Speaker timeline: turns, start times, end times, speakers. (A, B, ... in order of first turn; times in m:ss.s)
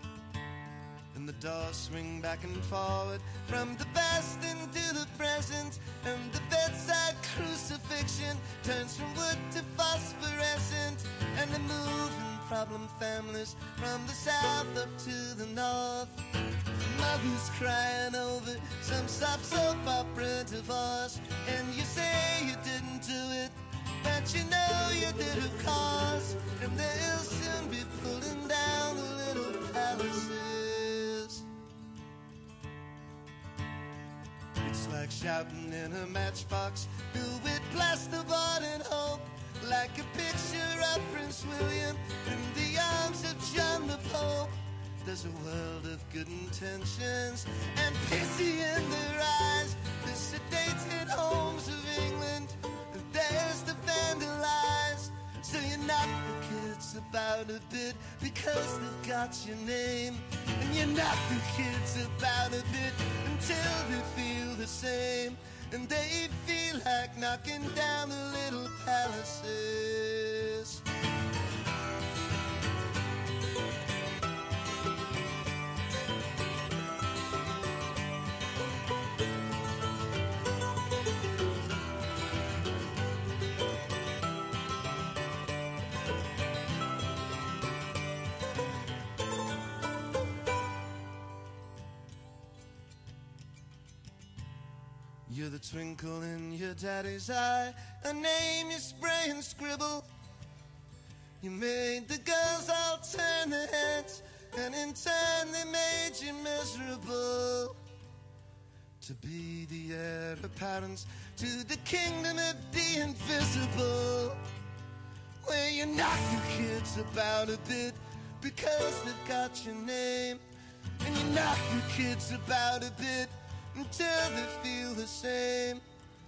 0:01.1-0:16.2 A
0:16.8-0:31.4 A
0:34.6-1:10.8 A
1:35.2-1:40.0 A
1:41.4-1:47.8 A
1:49.0-1:54.4 A
1:55.4-2:00.4 A
2:01.0-2:05.8 A